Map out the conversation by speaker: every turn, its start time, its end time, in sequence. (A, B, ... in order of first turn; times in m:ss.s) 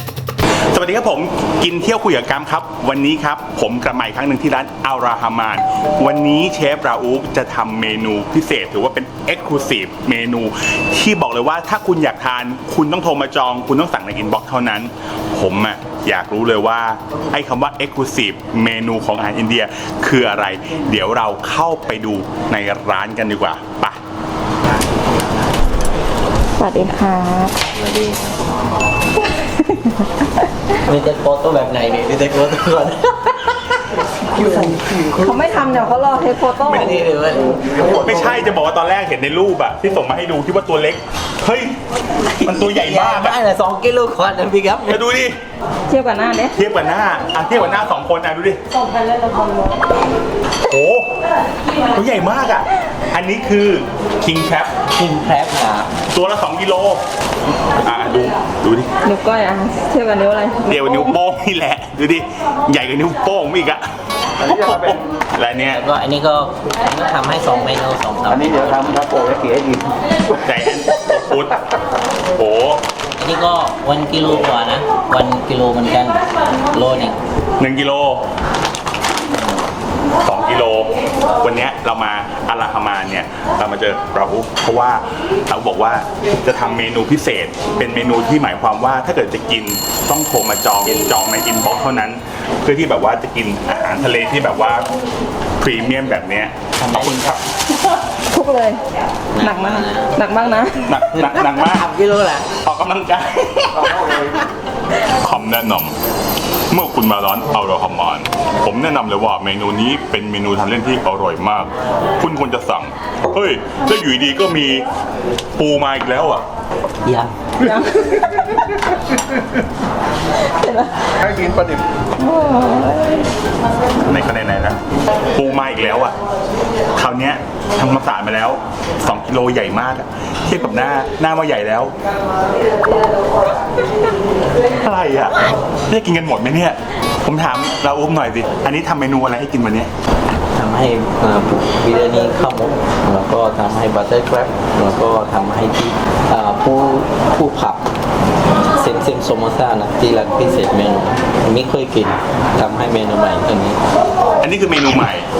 0:00.7-0:24.0 A
0:26.6-0:27.6 B
0:27.7-0:28.4 C
0:29.4-0:30.5 B
0:30.8-0:33.7 C
0:34.4-0:35.2 C
0:35.2-0:36.9 B
0:36.6-0:38.3 C
0:37.8-0:41.8 A
0:42.2-0:45.0 C
0:42.4-0:43.4 A
0:44.9-0:45.4 A
0:45.9-0:46.5 B
0:46.5-0:48.6 A
0:50.6-0:51.1 A
0:51.9-0:54.7 A
0:54.9-0:55.9 C
0:56.1-0:57.0 A
0:57.7-0:58.9 A
0:59.0-1:01.1 B
1:00.7-1:05.8 A
1:04.4-1:04.9 D
1:05.7-1:09.0 C
1:08.3-1:09.8 D
1:10.3-1:11.7 A
1:12.3-1:12.8 A
1:13.2-1:17.2 C
1:17.6-1:18.2 A
1:20.2-1:34.9 A
1:35.6-1:37.4 A
1:35.7-1:36.2 C
1:36.8-1:37.4 C
1:38.2-1:38.8 B
1:39.3-1:40.1 C
1:39.4-1:40.9 B
1:40.9-1:41.8 A
1:41.1-1:42.5 C
1:42.6-1:44.3 A
1:45.0-1:45.9 A
1:46.7-1:54.8 A
1:55.6-1:56.4 A
1:57.0-1:57.3 C
1:57.6-1:58.8 B
2:00.4-2:01.0 B
2:01.2-2:01.8 D
2:02.2-2:03.3 B
2:04.0-2:04.8 A
2:05.3-2:06.1 A
2:07.0-2:11.9 A
2:14.7-2:19.9 A
2:20.5-2:27.8 C
2:28.7-2:33.8 C
2:34.4-2:35.3 A